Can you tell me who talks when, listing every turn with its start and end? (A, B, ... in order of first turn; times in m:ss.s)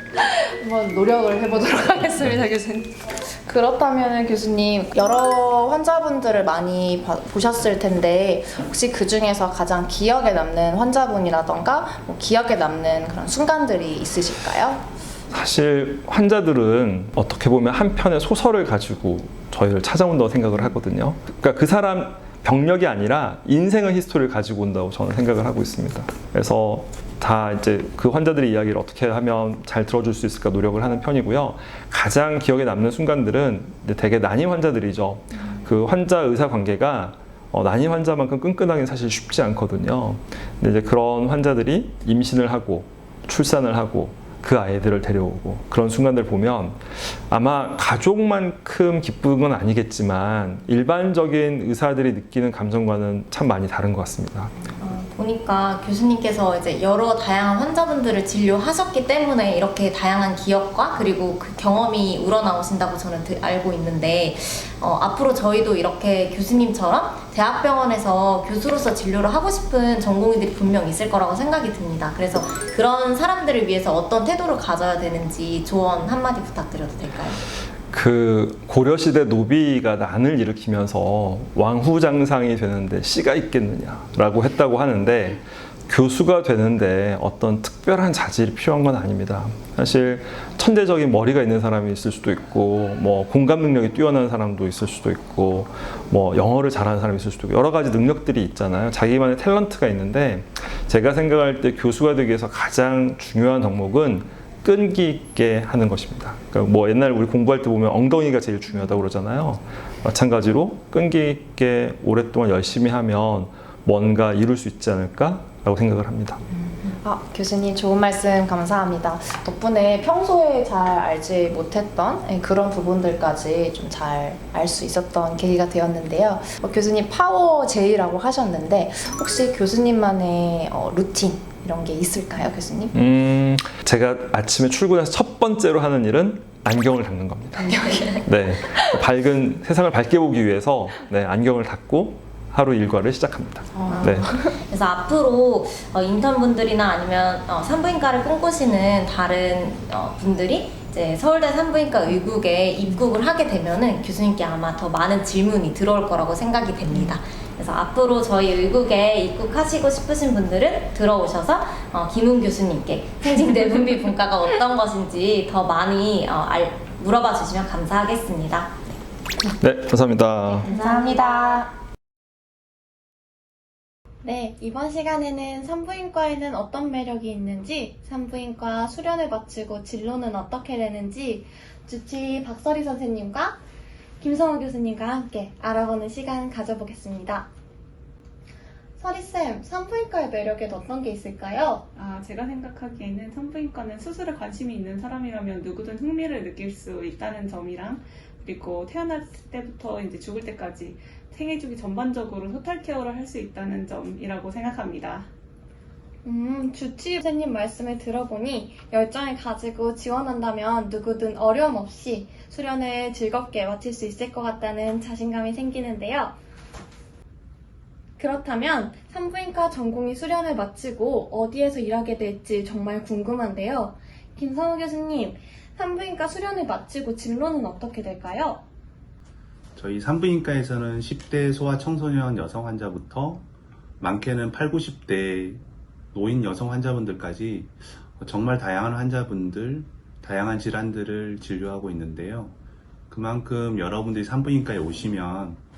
0:00.2-0:14.8 A
0:15.3-0:54.6 B
0:54.8-1:17.4 C
1:17.9-1:56.4 B
1:56.8-2:12.9 A
2:12.9-2:17.7 B
2:17.6-2:18.8 A
2:18.2-2:24.3 B
2:23.7-2:24.5 A
2:23.9-2:48.8 C
2:49.6-2:50.7 B
2:50.6-2:51.6 C
2:50.7-2:51.7 A
2:54.2-3:03.6 D
3:04.2-3:07.5 D
3:09.0-3:11.8 D
3:11.9-3:25.3 E
3:26.2-3:36.3 D
3:38.2-3:48.6 D
3:49.8-3:53.4 F
3:54.0-3:55.6 F
3:56.1-4:02.6 F
4:03.1-4:05.6 F